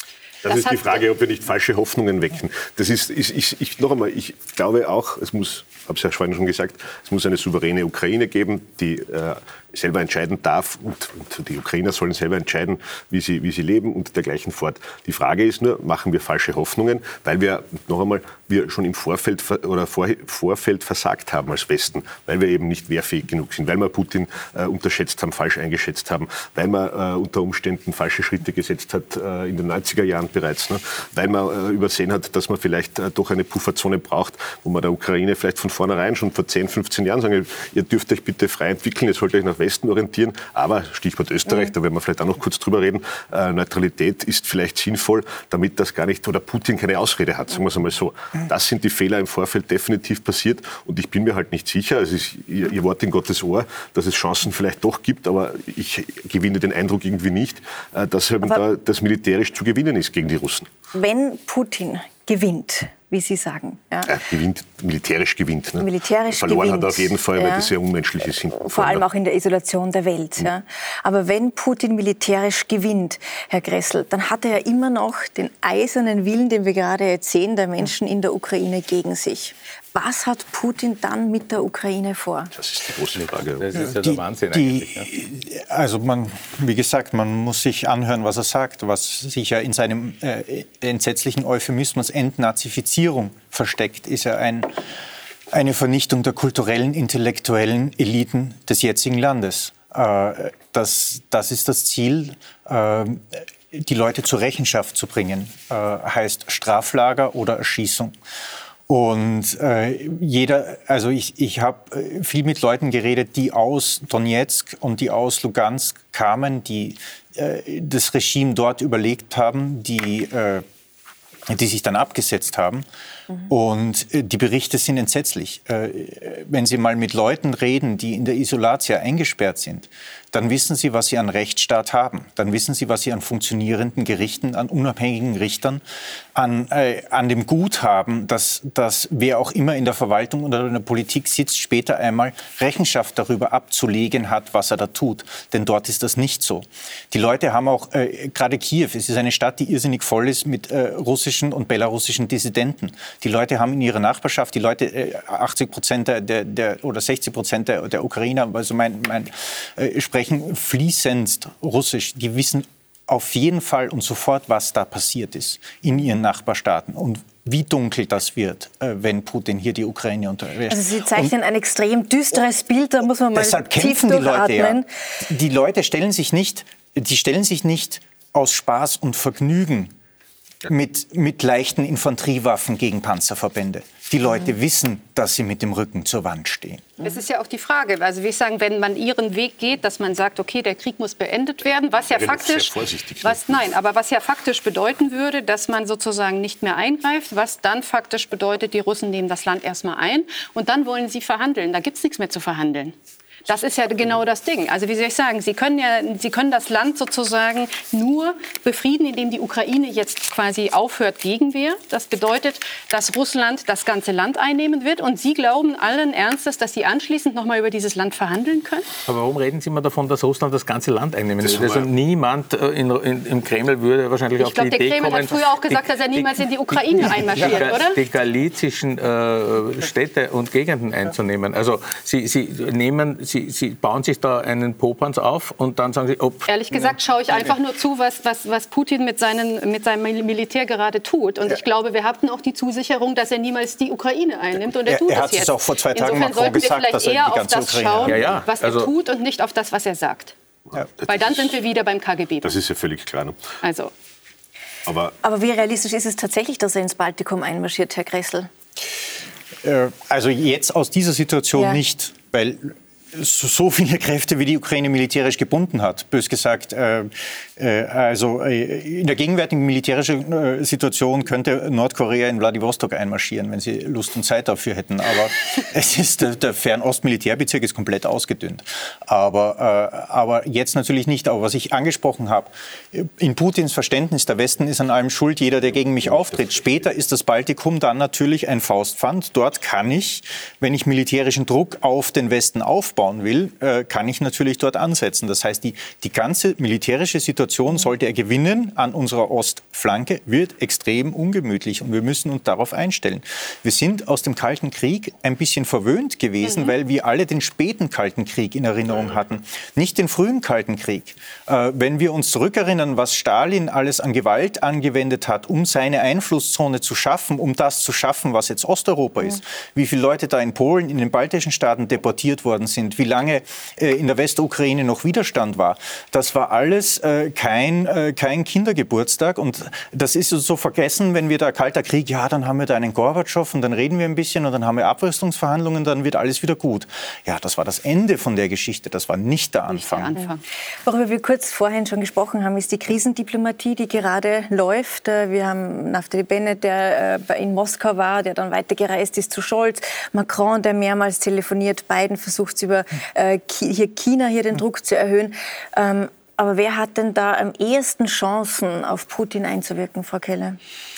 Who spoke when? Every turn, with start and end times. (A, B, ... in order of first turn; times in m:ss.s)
0:00.4-1:00.7 A
0:00.5-0:00.9 B
1:00.9-1:04.1 C
1:04.1-1:09.0 A
1:05.8-1:07.7 C
1:08.5-1:22.5 C
1:22.6-1:23.7 A
1:23.2-1:25.1 D
1:23.8-1:34.7 E
1:35.5-1:48.2 E
1:48.9-2:00.6 E
2:01.5-2:02.8 E
2:03.5-2:15.8 E
2:16.4-2:51.3 E
2:50.7-2:54.9 C
2:53.4-2:59.9 E
3:00.7-3:07.0 E
3:07.0-3:38.9 B
3:12.1-3:13.7 A
3:39.1-3:57.0 D
3:41.4-3:41.9 A
3:44.4-3:48.0 B
3:56.5-4:10.4 B
4:04.9-4:08.4 E
4:08.0-4:08.9 D
4:10.7-4:11.4 A
4:11.0-4:12.6 B
4:12.4-4:13.6 A
4:13.6-4:13.9 B
4:14.9-4:15.2 A
4:15.2-4:18.5 C
4:19.6-5:40.2 E
5:39.7-5:40.4 B
5:40.8-6:00.6 C